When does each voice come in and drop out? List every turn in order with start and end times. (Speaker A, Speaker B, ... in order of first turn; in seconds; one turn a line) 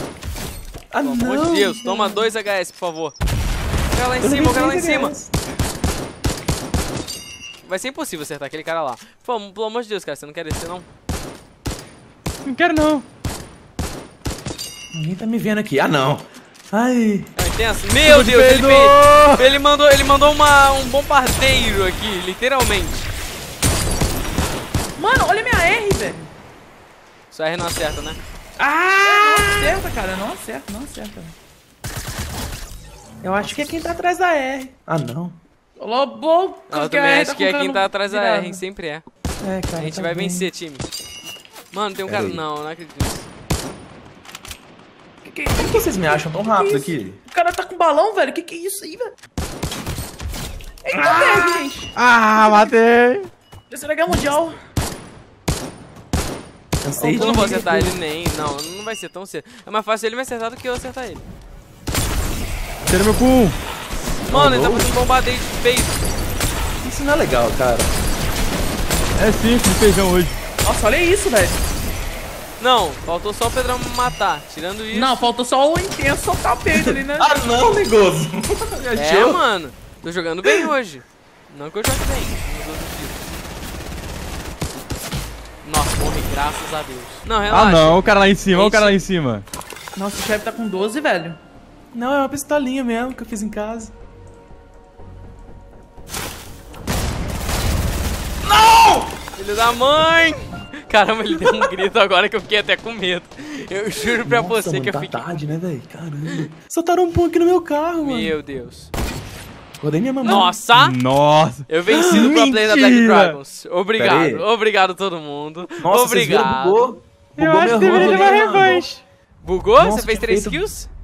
Speaker A: 0.9-2.3
Speaker B: 1.0-3.1
Speaker B: 3.9-5.1
Speaker A: 4.2-5.3
Speaker B: 7.6-10.9
Speaker C: 12.4-13.0
Speaker A: 14.9-17.3
Speaker B: 17.4-23.1
Speaker C: 18.0-19.4
Speaker D: 25.0-26.3
Speaker B: 27.3-28.2
Speaker A: 28.6-29.8
Speaker D: 29.0-31.3
Speaker A: 33.2-35.4
Speaker B: 33.4-33.9
Speaker D: 35.8-38.6
Speaker B: 36.7-39.0
Speaker A: 39.4-40.5
Speaker B: 39.8-40.8
Speaker B: 41.7-43.3
Speaker A: 42.0-42.4
Speaker D: 45.2-49.1
Speaker A: 45.6-47.2
Speaker D: 50.8-52.6
Speaker A: 50.9-51.6
Speaker C: 51.9-53.3
Speaker D: 53.7-54.6
Speaker A: 56.8-57.9
Speaker D: 57.0-57.8
Speaker B: 57.0-61.2
Speaker C: 62.8-63.6
Speaker B: 64.2-66.0
Speaker A: 64.3-64.9
Speaker A: 66.8-67.9
Speaker C: 69.2-70.4
Speaker D: 70.6-71.6
Speaker B: 72.6-75.3
Speaker D: 74.9-77.3
Speaker A: 76.7-79.4
Speaker B: 78.9-83.2
Speaker B: 85.6-89.0
Speaker C: 87.5-89.4
Speaker D: 90.0-91.4
Speaker A: 91.9-93.9
Speaker A: 98.4-99.1
Speaker B: 99.3-105.4
Speaker A: 104.2-108.3
Speaker B: 108.0-108.9
Speaker A: 109.8-110.6
Speaker B: 110.2-111.0
Speaker C: 110.7-113.4
Speaker B: 111.7-116.9
Speaker A: 111.9-112.4
Speaker A: 114.0-114.4
Speaker A: 115.8-118.8
Speaker C: 117.4-119.0
Speaker B: 117.8-118.4
Speaker B: 119.4-120.9
Speaker A: 119.8-120.6